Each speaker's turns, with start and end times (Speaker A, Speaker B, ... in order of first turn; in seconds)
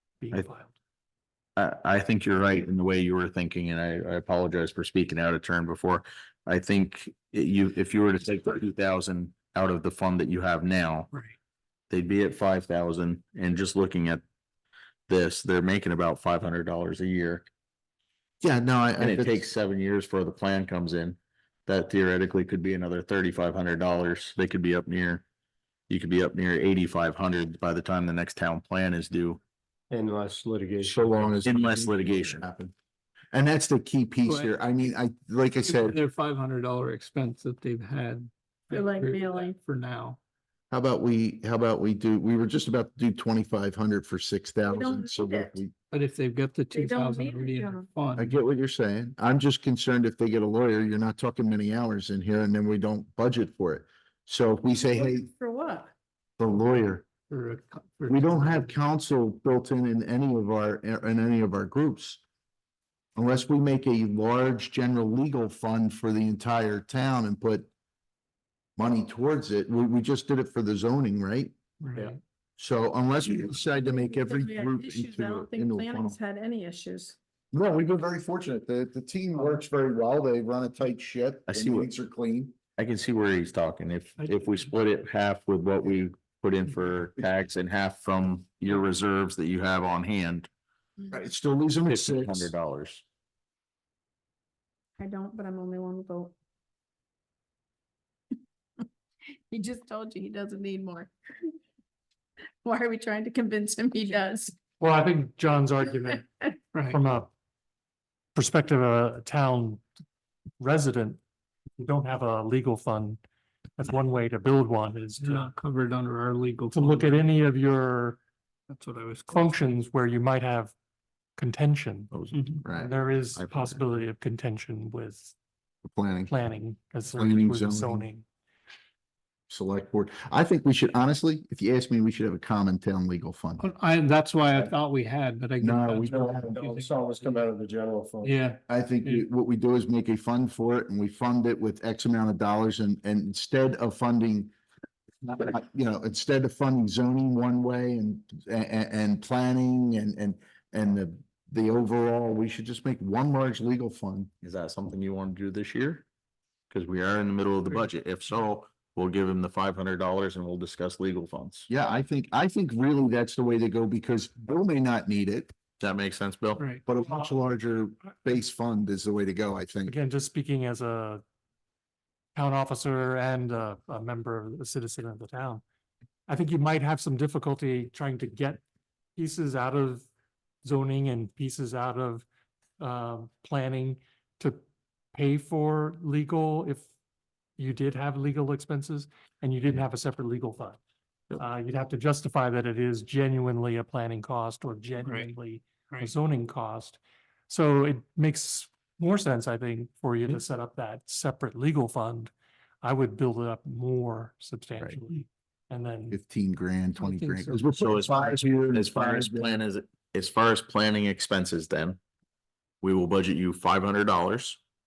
Speaker A: 0.2-0.8, 104.8-106.3, 106.9-107.3, 108.3-109.8, 110.6-111.2, 111.8-113.2, 113.8-115.5, 116.7-118.2, 119.3-120.7, 121.4-122.2, 122.7-125.3, 126.3-128.3, 169.9-171.2, 172.3-175.6, 176.3-178.6, 179.2-180.1, 180.6-182.3, 182.8-184.6, 185.1-186.9, 187.6-190.8, 191.4-206.2
Speaker B: 1.6-11.1, 11.9-14.2, 15.1-17.5, 19.0-25.2, 25.9-29.4, 31.4-32.5, 81.5-81.9, 82.8-90.5, 91.9-93.0, 122.1-122.5, 154.4-156.1, 156.7-161.7, 165.8-166.6, 207.8-212.0, 212.8-214.6
Speaker C: 18.4-19.5, 30.8-32.7, 33.3-36.0, 40.7-45.7, 48.2-55.3, 56.4-57.0, 58.1-62.2, 63.2-67.7, 68.8-71.5, 72.6-76.2, 77.5-82.5, 91.1-92.5, 122.6-123.0, 125.8-126.3, 127.1-128.1, 129.5-133.7, 135.6-136.7, 138.7-144.5, 145.2-154.3, 161.7-165.5, 166.9-169.9, 206.1-209.5
Speaker D: 29.9-31.8, 136.0-138.4
Speaker E: 34.3-34.5, 35.6-40.2, 45.9-48.4, 57.3-58.7, 71.8-72.2, 106.7-107.0, 115.2-117.2, 118.7-119.5, 122.3-122.6, 133.6-137.4, 138.2-139.3, 166.6-166.8, 195.0-195.3, 207.0-207.6
Speaker F: 38.7-39.6, 44.7-45.6, 46.7-47.9, 54.7-55.9, 73.9-77.2, 95.0-96.3, 99.5-101.6, 102.6-104.6